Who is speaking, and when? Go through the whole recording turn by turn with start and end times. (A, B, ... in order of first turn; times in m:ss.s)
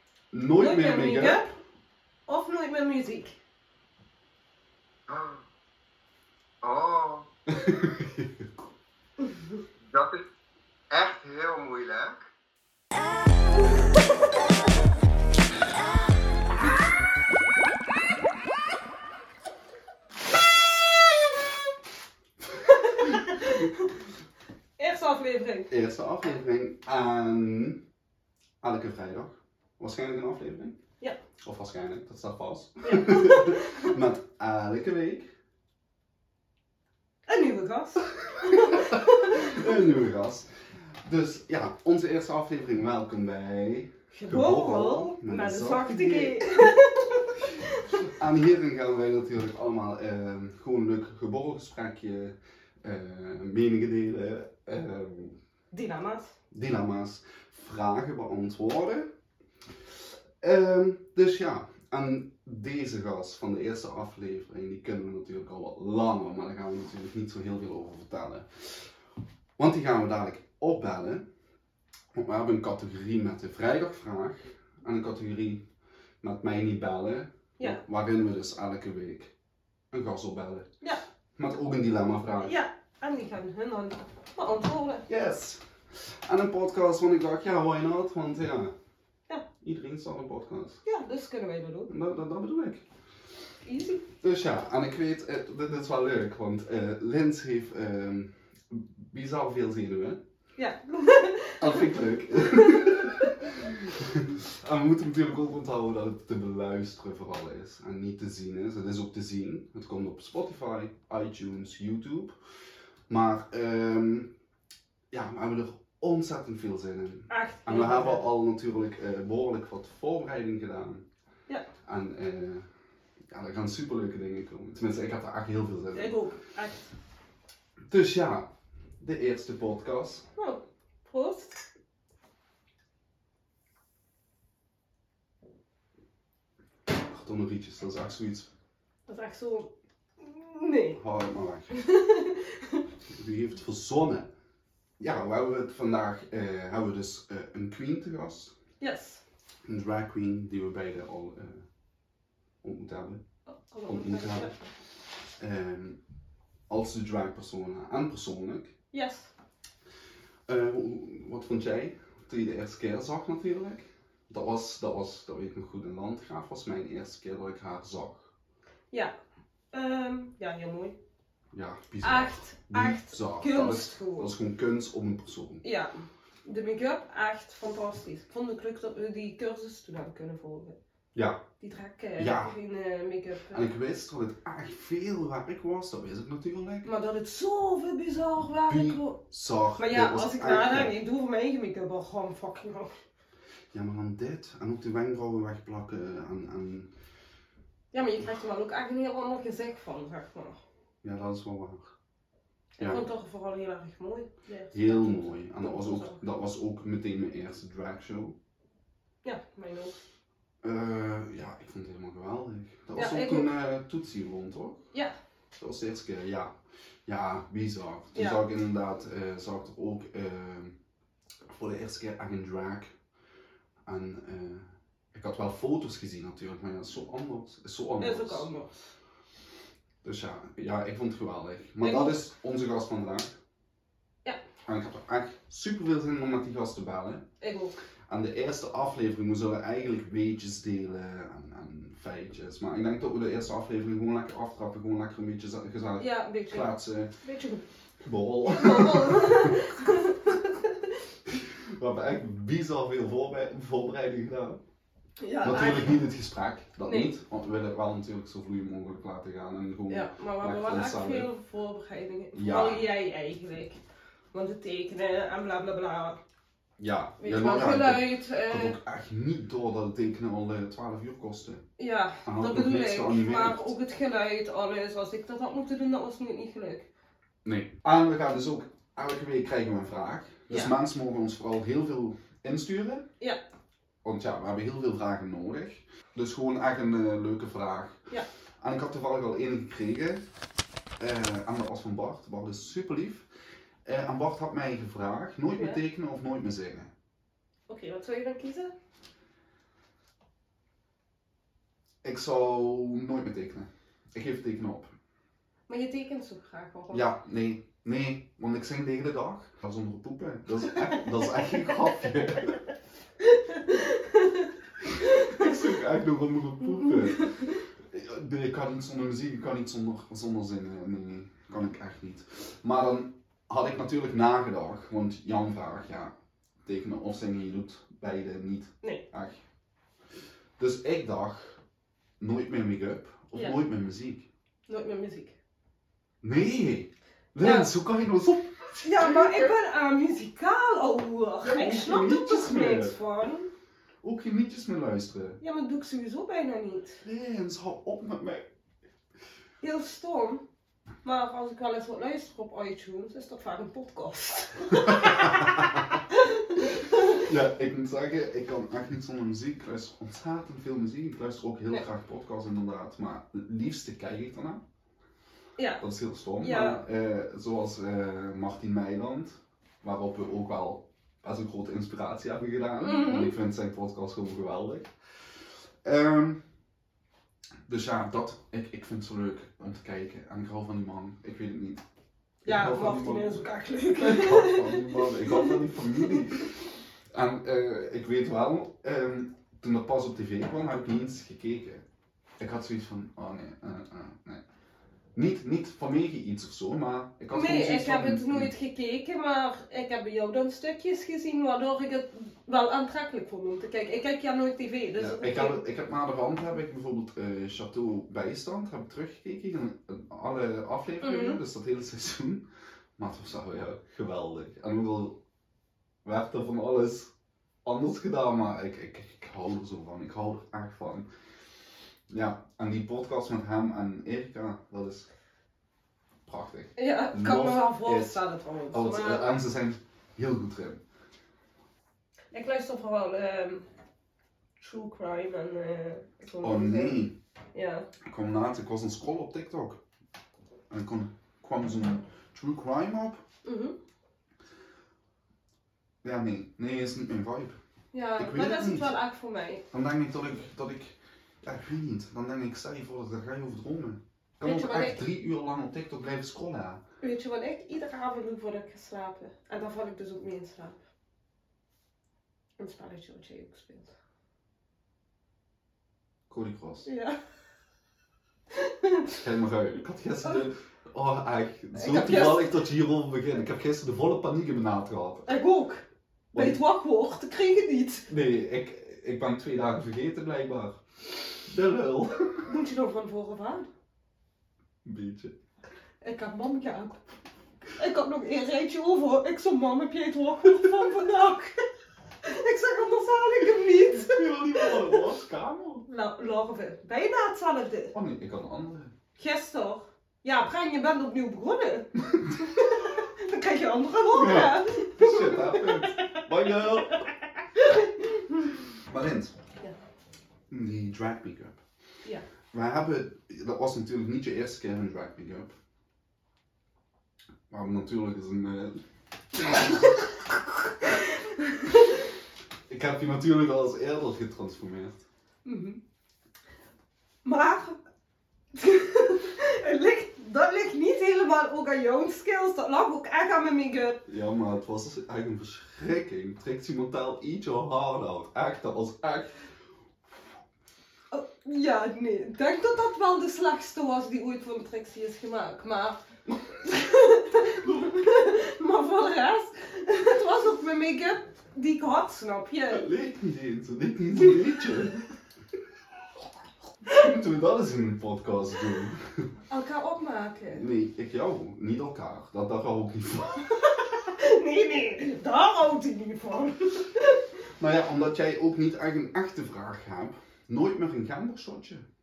0:00.3-0:01.5 A
0:00.6-0:01.5 B
0:02.3-0:03.4 B
0:05.1-0:05.4 C
0:06.6-0:07.2 C
0:07.5-0:08.5 A
0:09.8-0:10.2 C
0:10.9-0:12.2 C
0:22.6-0:23.9 B
0:24.8-0:25.7 B
0:25.7-0:27.8 A
0:28.6-0:30.8 A
0:31.4-0:35.3 A
0:32.8-0:33.9 B
0:37.3-0:39.7 B
0:38.6-0:40.5 A
0:41.0-0:46.5 A
0:44.1-0:48.0 B
0:48.1-0:55.4 A
0:55.7-0:56.3 B
0:56.5-0:59.1 A
1:00.4-1:08.8 A
1:09.6-1:11.2 A
1:12.1-1:15.6 A
1:16.2-1:19.3 A
1:19.9-1:20.7 A
1:21.4-1:22.5 A
1:22.4-1:25.0 B
1:25.1-1:28.7 A
1:29.6-1:30.8 A
1:30.8-1:31.9 B
1:31.9-1:32.8 A
1:33.6-1:34.0 B
1:34.2-1:40.2 A
1:40.6-1:43.4 B
1:41.6-1:52.4 A
1:53.1-1:54.3 A
1:55.1-2:01.0 A
1:57.3-1:58.3 B
2:01.8-2:02.6 A
2:03.3-2:06.2 A
2:05.9-2:06.9 B
2:07.9-2:10.2 A
2:10.4-2:11.6 B
2:17.1-2:18.5 A
2:19.1-2:21.0 B
2:21.0-2:21.7 A
2:21.7-2:22.8 B
2:23.1-2:24.3 A
2:25.0-2:28.5 A
2:28.8-2:29.2 B
2:29.6-2:31.6 A
2:32.6-2:33.2 A
2:33.5-2:34.5 B
2:33.8-2:34.5 A
2:35.4-2:36.0 A
2:36.7-2:38.7 A
2:38.9-2:39.3 B
2:40.5-2:48.3 A
2:49.7-2:50.9 B
2:51.5-2:55.6 A
2:52.0-2:54.3 B
2:55.6-3:00.8 B
3:01.1-3:01.4 A
3:01.6-3:03.7 B
3:02.2-3:02.5 A
3:03.5-3:06.9 A
3:06.8-3:09.2 B
3:08.5-3:10.9 A
3:09.8-3:13.0 B
3:13.7-3:16.9 A
3:17.9-3:20.6 B
3:21.0-3:21.9 A
3:22.8-3:26.2 B
3:22.8-3:23.0 A
3:24.7-3:28.3 A
3:29.2-3:29.9 B
3:30.6-3:34.8 A
3:32.9-3:33.5 B
3:35.6-3:36.5 A
3:37.0-3:40.7 A
3:41.5-3:42.9 A
3:43.8-3:48.5 A
3:48.0-3:48.7 B
3:50.0-3:53.3 A
3:51.8-3:52.2 B
3:54.6-3:57.2 A
3:57.4-3:57.7 B
3:58.1-4:07.1 A
4:06.0-4:06.7 B
4:07.2-4:07.6 B
4:08.0-4:09.8 A
4:08.5-4:10.9 B
4:11.3-4:14.6 A
4:15.2-4:16.0 B
4:15.4-4:21.3 A
4:16.8-4:17.1 B
4:19.9-4:23.8 B
4:22.3-4:22.8 A
4:24.3-4:26.2 B
4:26.8-4:31.6 A
4:27.2-4:28.8 B
4:31.8-4:36.9 B
4:32.2-4:33.7 A
4:37.4-4:43.0 A
4:40.5-4:40.7 B
4:44.0-4:48.0 A
4:48.6-4:50.2 A
4:51.0-4:53.2 A
4:53.8-4:56.9 A
4:57.7-4:58.7 B
5:02.0-5:04.9 A
5:05.7-5:07.1 B
5:06.9-5:12.6 A
5:13.2-5:14.5 B
5:15.0-5:15.6 B
5:15.2-5:26.1 A
5:17.0-5:17.5 B
5:26.6-5:29.4 A
5:30.6-5:31.6 A
5:32.2-5:34.2 A
5:34.7-5:35.3 B
5:36.2-5:39.5 A
5:37.4-5:37.7 B
5:38.8-5:43.5 B
5:41.4-5:43.0 A
5:44.0-5:45.4 A
5:45.4-5:47.0 B
5:47.0-5:48.5 A
5:49.6-5:50.4 B
5:51.0-5:57.2 B
5:54.8-5:55.8 A
5:57.1-6:04.6 A
6:05.6-6:05.8 B
6:05.8-6:14.9 A
6:06.4-6:06.8 B
6:12.8-6:13.3 B
6:15.8-6:16.4 A
6:17.7-6:21.8 A
6:22.4-6:31.8 A
6:22.4-6:26.2 B
6:32.4-6:34.4 A
6:35.1-6:38.5 A
6:37.3-6:45.6 B
6:45.0-6:52.4 A
6:51.0-6:51.4 B
6:53.0-6:55.2 A
6:56.0-6:57.1 A
6:57.6-7:01.1 A
7:02.1-7:05.1 A
7:06.2-7:08.2 A
7:06.8-7:09.3 B
7:08.7-7:10.8 A
7:12.3-7:13.6 B
7:14.6-7:17.9 B
7:16.4-7:17.2 A
7:18.0-7:19.8 A
7:20.7-7:23.2 A
7:23.4-7:23.8 B
7:26.0-7:27.6 A
7:27.9-7:29.6 B
7:28.2-7:28.9 A
7:29.7-7:36.8 A
7:34.4-7:35.0 B
7:37.0-7:40.8 B
7:42.6-7:43.9 B
7:46.3-7:46.9 A
7:46.8-7:47.2 B
7:48.5-7:49.2 B
7:49.2-7:55.2 A
7:51.7-7:52.6 B
7:55.2-7:58.1 B
7:56.3-7:56.6 A
7:58.1-8:02.4 A
8:02.4-8:03.7 B
8:04.8-8:05.3 A
8:06.0-8:07.0 B
8:07.7-8:11.6 B
8:12.2-8:15.0 B
8:14.1-8:15.8 A
8:15.9-8:17.9 B
8:17.9-8:18.9 A
8:19.2-8:28.6 B
8:24.1-8:27.0 A
8:28.8-8:29.3 A
8:30.5-8:31.6 A
8:32.5-8:35.5 A
8:37.5-8:38.8 A
8:39.3-8:40.0 A
8:40.8-8:42.0 B
8:42.7-8:45.0 A
8:45.4-8:45.8 B
8:47.2-8:47.8 B
8:48.5-8:54.0 B
8:54.0-8:59.4 A
9:01.1-9:06.0 B
9:06.6-9:12.8 B
9:12.7-9:15.0 A
9:16.8-9:19.3 A
9:19.5-9:20.6 B
9:20.5-9:23.5 A
9:23.6-9:27.2 B
9:27.6-9:31.8 A